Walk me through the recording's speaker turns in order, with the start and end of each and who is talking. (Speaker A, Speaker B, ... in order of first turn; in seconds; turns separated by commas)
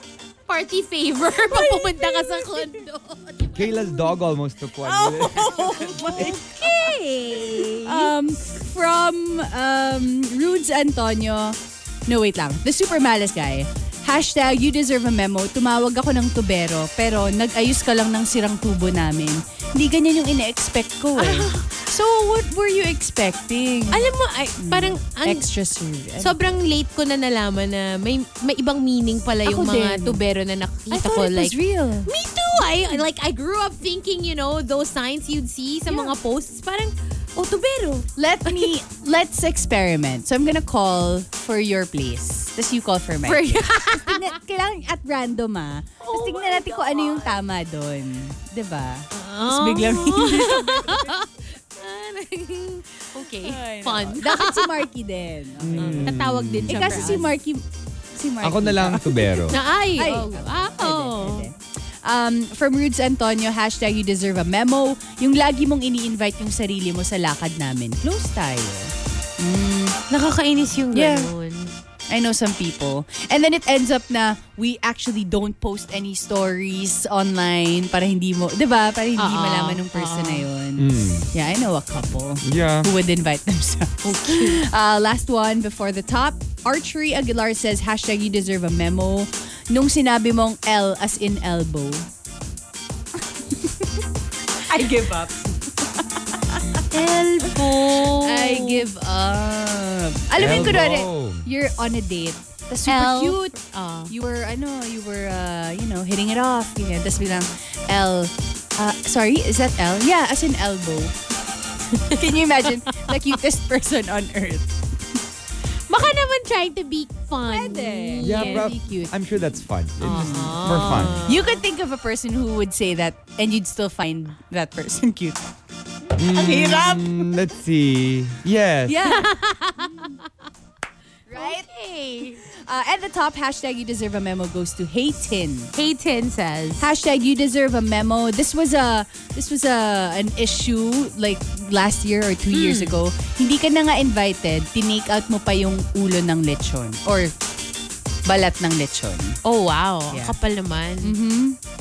Speaker A: 0.5-3.8, Speaker B: 1.4-2.8, Speaker C: 3.5-6.3, Speaker B: 3.7-4.2, Speaker B: 4.9-26.4, Speaker A: 5.0-8.1, Speaker A: 21.2-21.8, Speaker A: 23.9-25.5, Speaker A: 26.2-38.7, Speaker B: 29.4-30.2, Speaker B: 30.9-32.1, Speaker B: 35.9-36.2, Speaker B: 38.2-51.2, Speaker A: 43.2-44.4, Speaker A: 46.0-47.4, Speaker A: 49.1-54.8, Speaker B: 53.2-70.0, Speaker C: 55.6-57.2, Speaker A: 55.8-57.3, Speaker C: 58.4-59.6, Speaker A: 59.5-61.5, Speaker A: 70.1-71.7, Speaker B: 70.9-71.3, Speaker B: 72.1-92.1, Speaker A: 79.2-80.5, Speaker C: 80.8-81.3, Speaker C: 82.4-82.9, Speaker A: 84.0-84.7, Speaker B: 93.4-94.1, Speaker B: 94.6-96.8, Speaker A: 96.9-98.8, Speaker B: 97.4-103.6, Speaker C: 100.3-101.5, Speaker A: 102.9-104.1, Speaker B: 104.1-111.2, Speaker B: 111.9-114.8, Speaker A: 115.9-118.7, Speaker B: 117.4-125.5, Speaker C: 118.2-121.2, Speaker A: 120.0-121.6, Speaker C: 126.2-129.1, Speaker B: 126.2-127.4, Speaker B: 128.9-130.1, Speaker A: 129.0-130.3, Speaker B: 131.3-131.7, Speaker A: 131.3-132.4, Speaker B: 132.4-135.7, Speaker A: 135.8-136.9, Speaker B: 136.8-147.4, Speaker A: 142.5-143.0, Speaker B: 148.2-149.4, Speaker A: 149.4-151.2, Speaker B: 150.1-150.4, Speaker B: 151.0-151.6